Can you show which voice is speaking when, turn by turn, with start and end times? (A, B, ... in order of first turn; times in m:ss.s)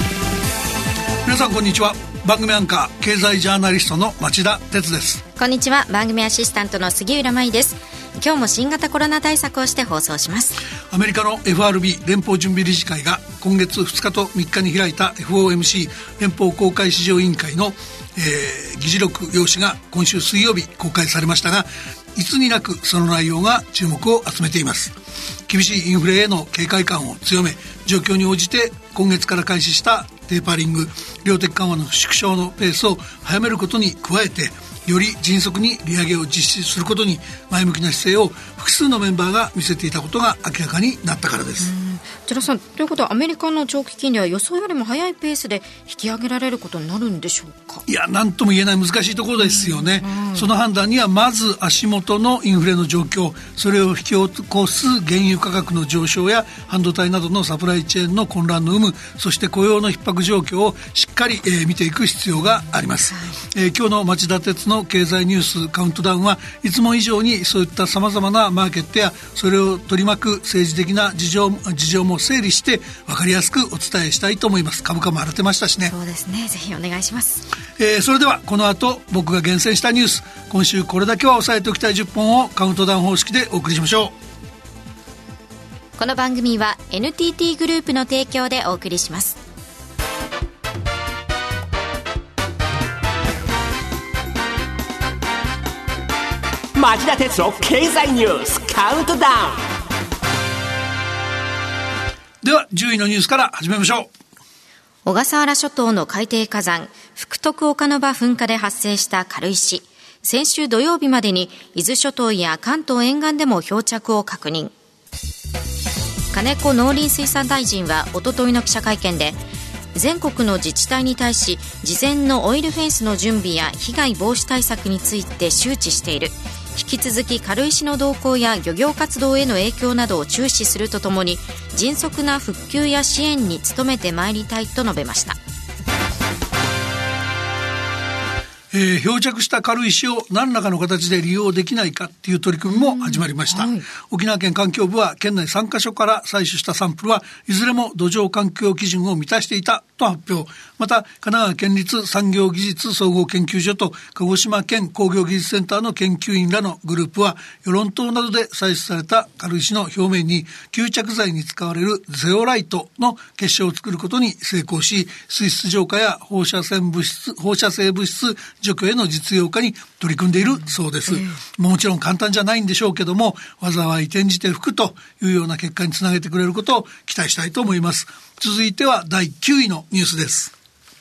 0:01.2-0:05.2 A
0:05.4-0:10.6 B
0:10.9-0:25.0 A
0:25.5-0:41.7 A
0:41.6-0:47.8 B
0:47.9-1:15.9 A
0:49.4-0:50.5 B
1:15.9-1:17.5 B
1:17.8-1:24.1 A
1:26.0-1:29.4 B
1:36.7-1:39.6 C
1:42.4-1:44.1 A
1:45.0-1:54.7 B
1:56.3-1:59.4 B
1:59.9-2:15.4 B
2:18.7-3:00.5 A
2:22.7-2:23.8 B